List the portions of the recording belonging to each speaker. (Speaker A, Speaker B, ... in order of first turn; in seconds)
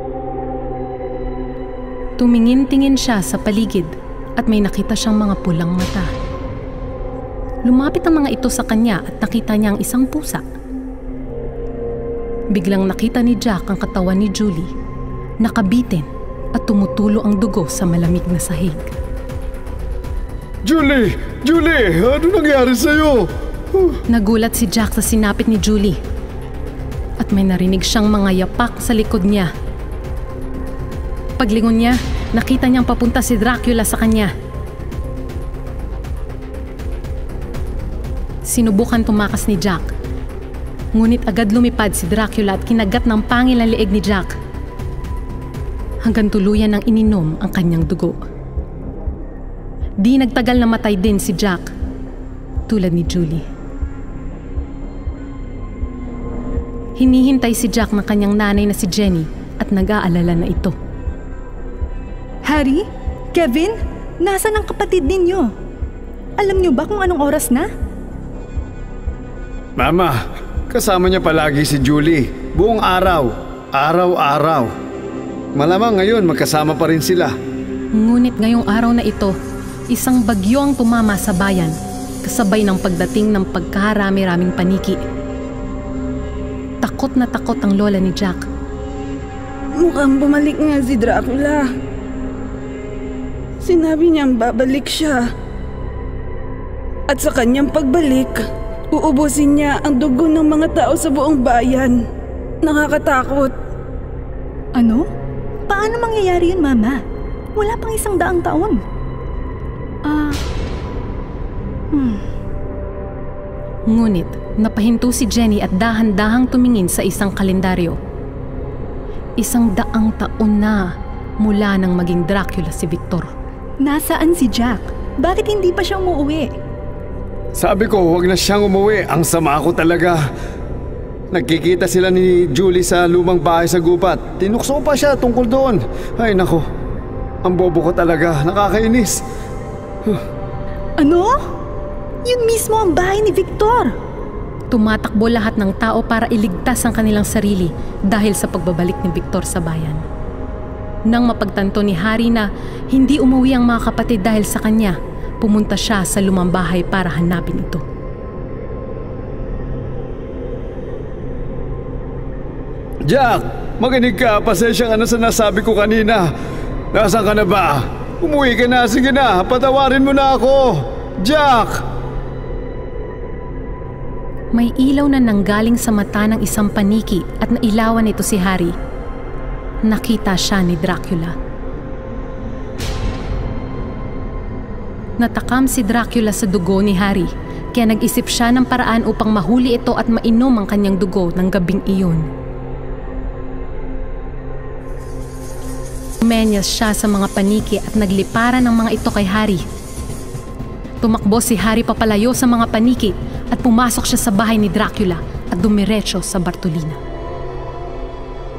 Speaker A: 2.2-6.1, 7.7-10.4, 12.5-14.7, 15.4-16.1, 16.6-18.9, 24.1-26.0, 27.2-29.5, 31.4-34.3, 38.5-39.9, 41.0-44.4, 46.0-48.2, 50.0-51.7, 52.7-53.4, 57.0-60.7, 78.0-79.3, 79.9-85.0, 86.8-88.4, 113.9-118.0, 119.4-123.3, 144.7-150.0, 151.1-157.8, 174.5-178.7, 179.9-181.3, 185.2-192.2, 196.2-199.6, 201.0-207.0
Speaker B: 20.6-24.0, 69.8-74.7, 75.5-77.3, 127.5-130.2, 131.3-136.6, 137.4-139.2, 163.1-166.3, 166.9-171.8
Speaker C: 62.5-62.8, 63.3-65.5, 66.4-67.7, 104.7-105.1, 105.7-107.0, 107.5-108.8, 110.0-110.4, 111.9-112.2, 123.8-126.5, 141.0-141.4, 142.2-143.9
Speaker D: 89.8-91.7, 93.6-95.2, 97.1-102.0, 102.6-103.5